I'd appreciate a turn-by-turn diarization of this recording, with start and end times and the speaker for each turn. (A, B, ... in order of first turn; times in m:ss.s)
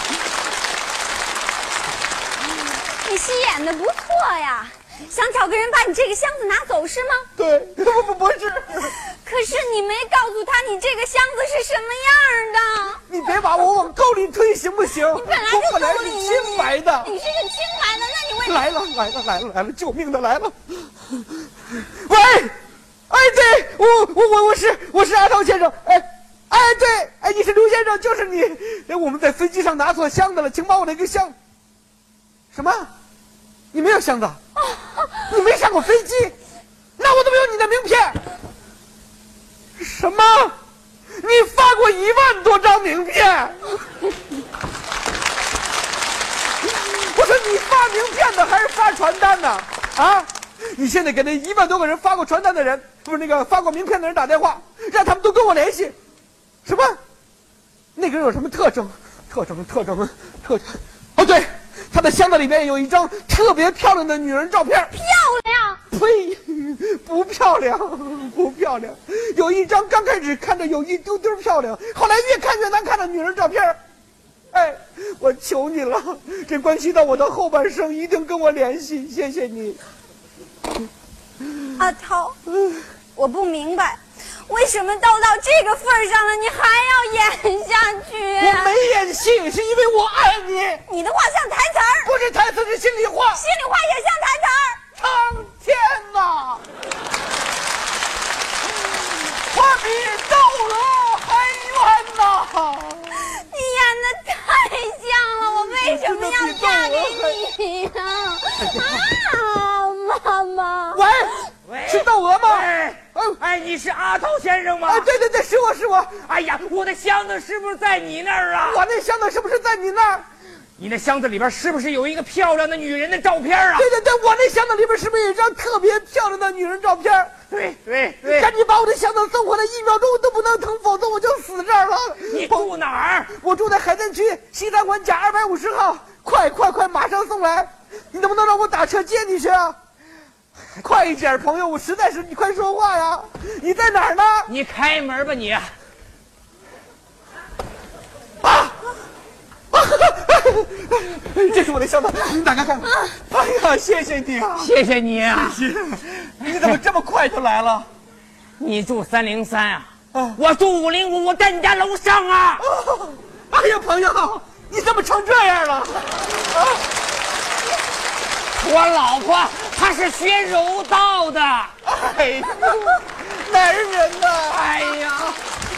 0:02.5-0:07.3 A
0:07.4-0:08.9 B
0:08.9-0:13.0 A
0:13.1-0:17.1 B
0:15.0-0:18.6 A
0:18.4-0:22.5 B
0:23.1-0:31.3 B
0:32.5-0:32.9 B
0:33.7-0:34.4 B
0:35.2-0:36.3 B
0:37.0-0:38.2 B
0:39.8-0:40.6 B
0:41.2-0:43.7 B
0:46.6-0:55.9 B
0:56.6-0:57.0 B
0:57.9-1:04.9 B
1:04.9-1:05.8 A
1:05.9-1:13.8 B
1:14.5-1:19.8 B
1:21.8-1:22.4 A
1:23.1-1:28.7 A
1:28.4-1:30.8 B
1:30.8-1:32.1 A
1:32.0-1:33.4 B
1:33.3-1:34.8 A
1:35.0-1:36.6 B
1:39.3-1:43.2 B
1:43.2-1:51.0 A
1:45.4-1:47.4 B
1:48.6-1:49.0 B
1:50.9-1:53.4 B
1:51.6-1:55.1 C
1:54.8-1:56.3 B
1:56.3-1:58.8 C
1:58.6-2:00.2 B
2:00.8-2:03.9 C
2:03.7-2:07.3 B
2:07.5-2:08.5 C
2:08.2-2:12.7 B
2:12.3-2:13.3 C
2:13.2-2:19.8 B
2:20.7-2:24.5 B
2:24.5-2:25.7 C
2:28.4-2:28.8 B
2:29.7-2:34.8 B
2:34.6-2:35.6 C
2:35.3-2:37.9 B
2:36.4-2:36.8 C
2:38.6-2:42.7 C
2:40.1-2:40.4 B
2:42.6-2:46.8 B
2:48.6-2:51.7 C
2:51.8-2:54.9 B
2:54.5-2:55.4 C